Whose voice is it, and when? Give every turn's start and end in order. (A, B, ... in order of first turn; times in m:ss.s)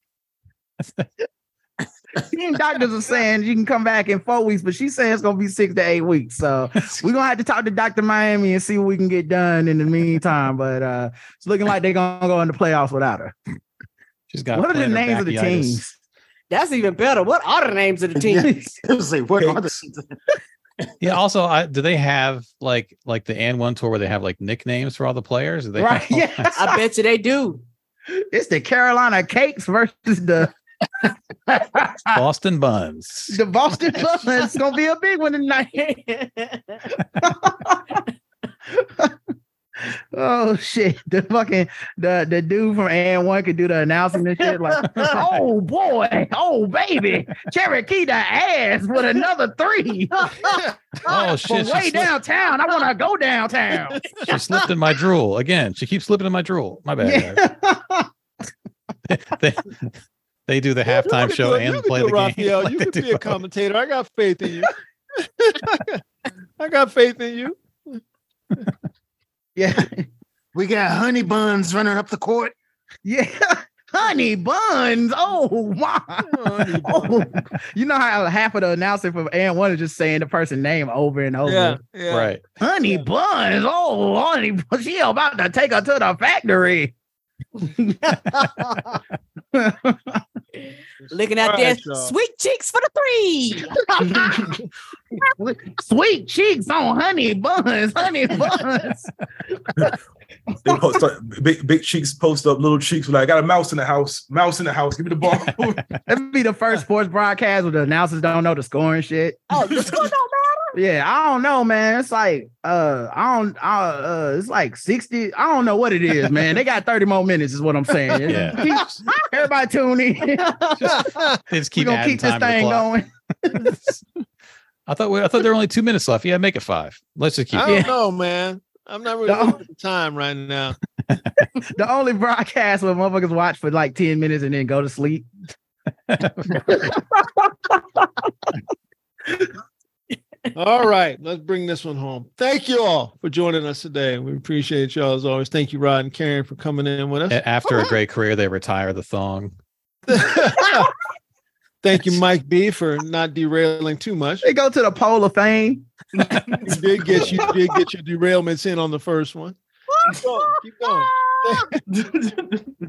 0:02.2-0:13.3 A
0:14.3-0:15.8 B
0:14.5-0:16.0 A
0:16.5-0:18.5 C
0:18.2-0:20.1 D
0:18.4-0:18.8 A
0:19.4-0:19.8 E
0:21.0-0:26.5 B
0:25.8-0:26.8 A
0:26.6-0:27.6 C
0:28.1-0:30.5 A
0:31.5-0:32.2 D
0:32.1-0:33.4 B
0:33.3-0:36.1 A
0:36.1-0:36.8 C
0:37.2-0:38.0 A
0:38.7-0:39.1 A
0:40.1-0:54.0 A
0:45.0-0:45.4 B
0:50.5-0:50.8 F
0:51.1-0:52.1 B
0:53.9-0:54.2 F
0:54.3-0:57.4 B
0:57.0-0:58.1 A
0:59.1-0:59.9 B
1:00.5-1:03.4 B
1:01.0-1:06.0 F
1:06.6-1:08.0 F
1:09.6-1:10.1 A
1:10.5-1:12.5 D
1:13.0-1:21.8 A
1:16.2-1:17.4 F
1:21.4-1:23.0 F
1:22.1-1:22.4 B
1:22.6-1:26.9 A
1:27.6-1:28.2 A
1:28.3-1:28.7 C
1:29.5-1:30.2 A
1:31.1-1:32.1 F
1:31.1-1:33.8 C
1:33.8-1:34.5 A
1:34.1-1:34.4 E
1:35.2-1:39.1 A
1:40.6-1:45.8 E
1:46.1-1:49.4 A
1:49.5-1:50.8 C
1:49.6-1:50.0 E
1:50.7-2:01.1 A
1:58.2-1:59.0 B
2:00.8-2:02.9 B
2:01.0-2:01.4 F
2:01.8-2:03.7 A
2:03.5-2:04.0 B
2:04.9-2:07.9 B
2:07.5-2:10.8 F
2:07.6-2:07.9 A
2:09.2-2:09.6 A
2:11.1-2:11.4 B
2:11.7-2:15.3 A
2:16.1-2:17.0 B
2:16.7-2:17.0 A
2:20.6-2:27.4 F
2:27.3-2:29.5 B
2:30.1-2:30.9 F
2:31.8-2:34.4 F
2:34.4-2:36.5 A
2:36.2-2:37.4 E
2:36.6-2:39.6 F
2:40.1-2:41.8 F
2:41.9-2:42.6 E